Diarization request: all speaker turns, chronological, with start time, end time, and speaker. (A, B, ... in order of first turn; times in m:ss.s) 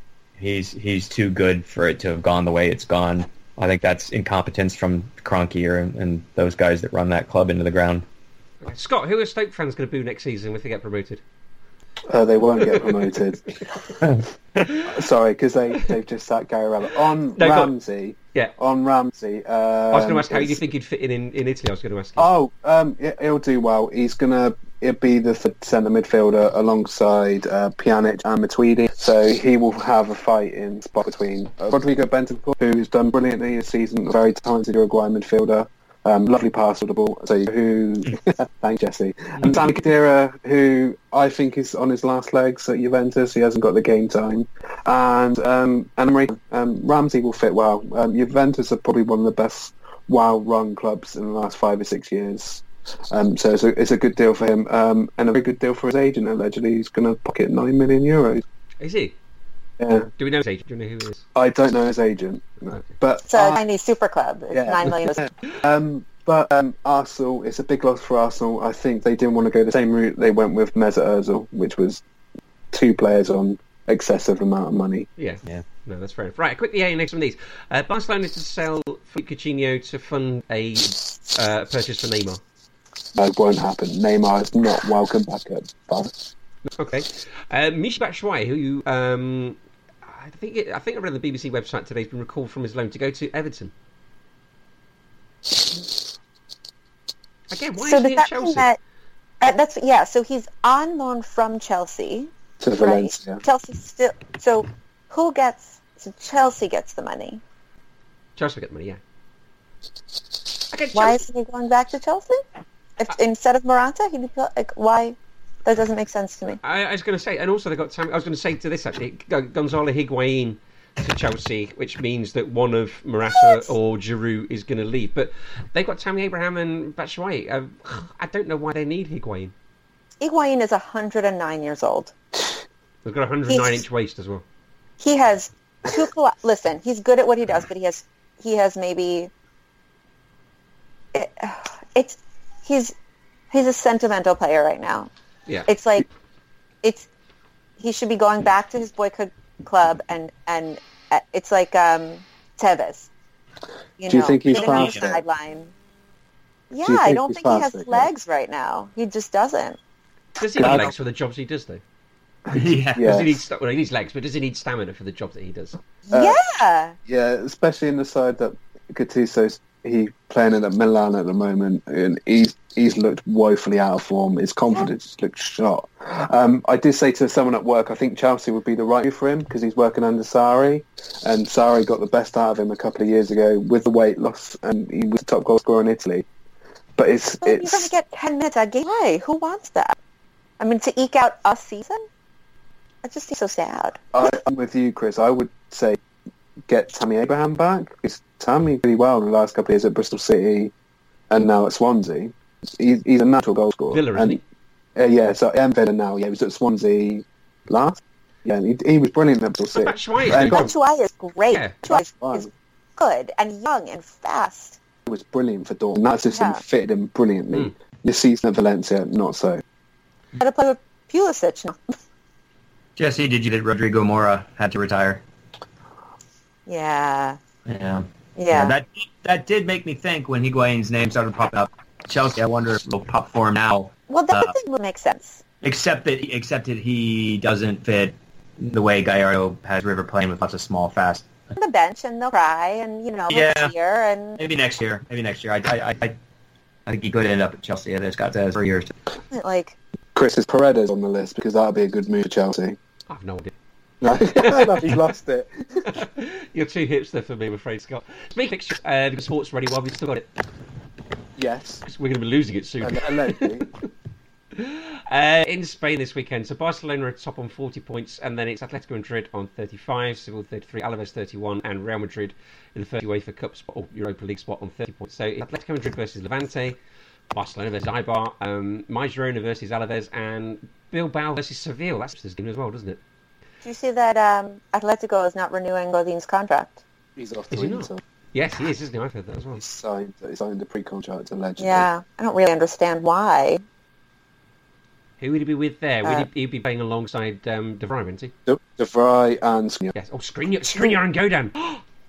0:00.4-0:08.0 A
0:08.6-0:11.2 B
0:12.1-0:13.6 C
0:12.6-0:13.0 B
0:14.0-0:14.3 A
0:14.6-0:15.0 B
0:14.6-0:20.6 C
0:17.4-0:17.7 B
0:19.9-0:22.3 B
0:22.2-0:58.4 C
0:58.8-0:59.1 B
0:59.8-1:00.1 C
1:00.2-1:01.2 B
1:01.3-1:03.6 C
1:03.3-1:05.2 D
1:04.5-1:12.0 C
1:12.7-1:15.1 C
1:15.2-1:22.4 B
1:23.1-1:26.1 C
1:26.7-1:33.7 B
1:37.5-1:38.7 B
1:37.8-1:38.8 D
1:39.4-1:47.4 D
1:42.6-1:43.4 C
1:48.4-1:49.0 B
1:50.7-1:51.2 B
1:50.9-1:52.4 D
1:53.0-1:56.6 D
1:56.6-2:09.5 B
2:03.4-2:03.7 D
2:10.2-2:12.1 D
2:13.0-2:14.4 B
2:13.5-2:13.8 D
2:15.0-2:19.3 D
2:21.1-2:22.9 D
2:23.5-2:25.1 D
2:25.6-2:26.0 D
2:26.8-2:27.1 D
2:27.8-2:33.1 D
2:34.0-2:35.7 D
2:34.1-2:35.2 C
2:34.5-2:35.1 A
2:36.7-2:39.8 D
2:36.8-2:38.1 C
2:40.4-2:41.8 B
2:40.6-2:40.9 A
2:40.6-2:40.9 C
2:42.5-2:43.2 A
2:42.5-2:43.3 C
2:43.0-2:45.8 B
2:46.1-2:47.0 D
2:46.1-2:46.4 C
2:47.1-3:06.2 C
3:07.0-3:07.9 C
3:07.4-3:10.0 D
3:10.6-3:12.0 D
3:13.0-3:14.3 D
3:14.1-3:16.0 C
3:16.7-3:20.7 C
3:21.3-3:24.4 C
3:23.9-3:24.4 B
3:24.9-3:30.7 C
3:29.7-3:30.7 B
3:30.5-3:34.8 D
3:31.8-3:32.5 C
3:35.1-3:39.6 C
3:36.3-3:36.6 D
3:40.4-3:41.8 D
3:43.0-3:45.2 A
3:46.7-3:47.4 D
3:47.6-3:54.5 A
3:48.4-3:48.8 D
3:54.1-3:55.4 D
3:55.6-4:01.5 A
4:01.6-4:04.4 D
4:03.3-4:03.7 A
4:04.4-4:06.2 A
4:06.9-4:08.9 A
4:09.3-4:09.8 D
4:10.1-4:12.8 C
4:13.1-4:13.5 B
4:14.0-4:15.9 C
4:14.2-4:15.0 B
4:15.8-4:20.3 B
4:21.4-4:21.8 C
4:21.8-4:23.7 B
4:22.8-4:23.6 C
4:24.5-4:36.8 B
4:37.3-4:43.0 B
4:43.6-4:46.8 D
4:47.2-4:48.0 C
4:47.5-4:49.6 B
4:49.6-4:51.9 C
4:51.6-4:53.6 D
4:55.2-4:58.3 B
4:58.4-4:59.9 C
4:59.9-5:01.8 B